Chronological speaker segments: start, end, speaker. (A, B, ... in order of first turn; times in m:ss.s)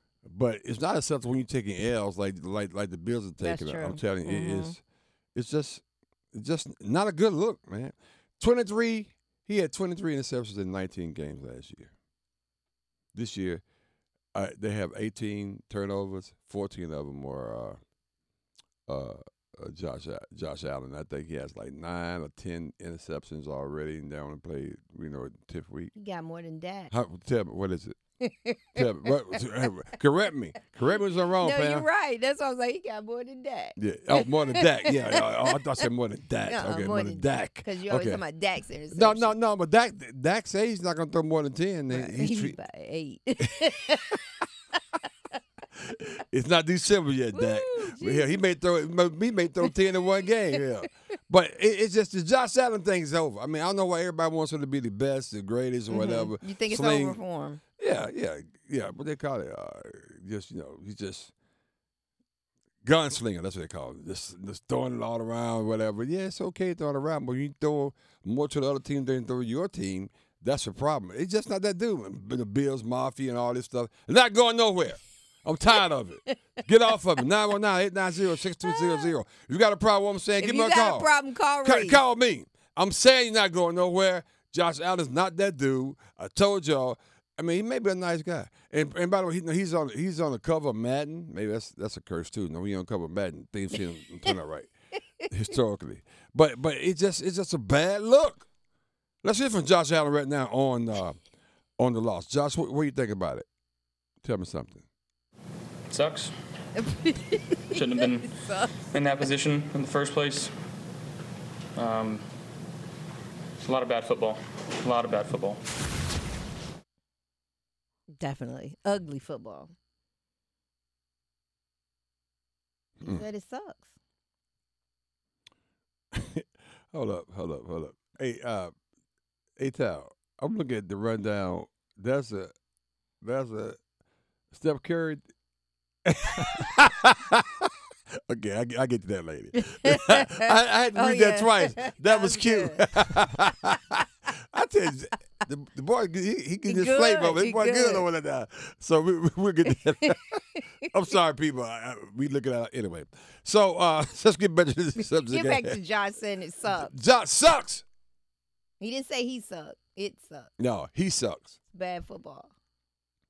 0:00.2-0:04.8 A
0:03.4-0:04.8 B
0:05.3-0:11.9 A
0:13.1-0:13.6 A
0:14.3-0:17.8 A
0:18.9-0:25.9 A
0:25.9-0:26.9 B
0:26.9-0:28.0 A
0:28.2-0:28.9 B
0:28.8-0:31.9 A
0:31.4-0:33.8 B
0:33.8-0:38.2 A
0:34.5-0:35.5 B
0:36.4-0:39.4 B
0:38.9-0:42.6 A
0:41.9-0:44.2 B
0:46.3-0:57.2 A
0:47.3-0:48.3 B
0:55.9-0:57.6 B
0:57.8-1:01.3 A
1:02.8-1:34.7 A
1:18.6-1:19.1 B
1:20.4-1:22.0 B
1:35.3-1:38.5 A
1:39.2-1:41.2 A
1:41.8-1:43.4 A
1:44.2-1:44.8 A
1:45.9-1:46.3 C
1:46.8-1:48.8 B
1:47.7-1:48.3 C
1:48.9-1:50.5 C
1:51.8-1:52.2 C
1:53.6-1:55.6 C
1:58.2-1:59.7 B
2:03.0-2:03.9 B
2:06.1-2:08.7 A
2:09.6-2:12.5 A
2:13.2-2:13.8 A
2:14.5-2:15.3 A
2:16.0-2:17.6 A
2:18.3-2:30.3 A
2:19.6-2:22.8 B
2:26.7-2:28.0 B
2:30.0-2:30.6 B
2:30.9-2:35.8 A
2:35.3-2:36.9 B
2:36.6-2:37.8 A
2:38.8-2:40.5 B
2:40.6-2:41.5 A
2:41.7-2:42.5 B